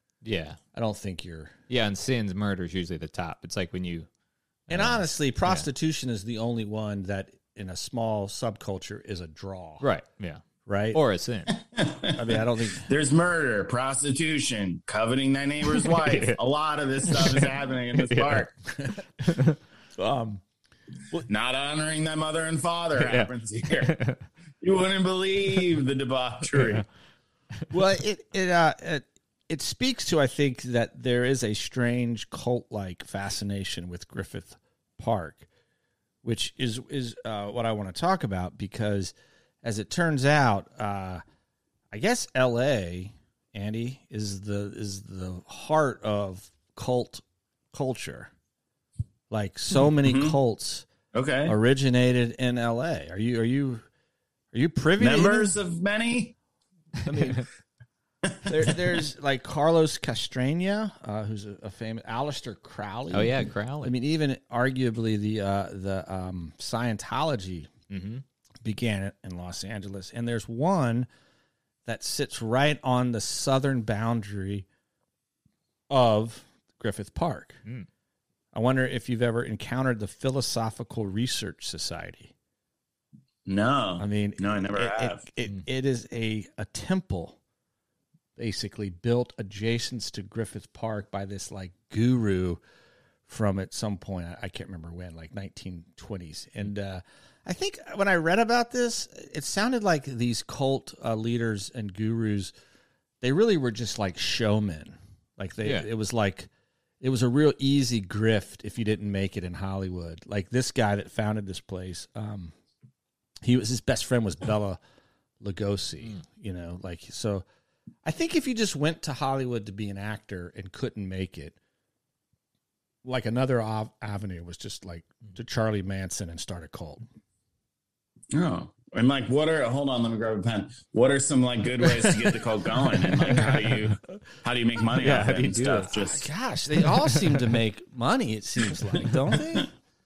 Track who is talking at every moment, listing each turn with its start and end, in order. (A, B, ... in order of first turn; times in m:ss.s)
0:00.2-0:00.6 A
0:00.7-0:01.6 B
0:01.7-0:04.1 A
0:04.7-0:05.7 A
0:04.7-0:09.8 B
0:09.8-0:11.6 A
0:10.7-0:11.0 B
0:11.7-0:18.5 C
0:12.1-0:12.9 B
0:15.8-0:16.4 A
0:17.1-0:18.4 A
0:18.8-0:20.4 B
0:19.3-0:19.6 A
0:21.3-0:24.0 C
0:23.0-0:24.2 A
0:24.6-0:26.8 C
0:26.6-0:26.8 A
0:27.7-0:35.5 B
0:36.2-0:41.2 B
0:41.9-0:48.3 B
0:49.3-0:50.9 B
0:50.0-0:50.4 C
0:51.1-0:51.6 C
0:51.5-0:53.9 B
0:54.5-0:55.5 B
0:55.0-0:56.4 C
0:57.0-0:57.5 B
0:58.4-1:07.7 B
1:03.1-1:03.9 A
1:07.9-1:08.2 A
1:08.6-1:11.1 B
1:11.8-1:14.7 B
1:15.9-1:17.6 B
1:18.5-1:22.3 B
1:23.5-1:25.3 C
1:24.0-1:27.4 B
1:28.4-1:32.6 B
1:33.3-1:42.5 B
1:43.2-1:46.5 B
1:47.0-1:52.5 B
1:53.4-1:54.8 B
1:55.4-1:57.4 B
1:58.0-2:01.6 B
2:03.0-2:07.0 B
2:08.3-2:16.3 C
2:12.0-2:12.3 B
2:13.1-2:13.5 B
2:15.0-2:15.9 A
2:15.9-2:19.7 B
2:17.1-2:17.4 A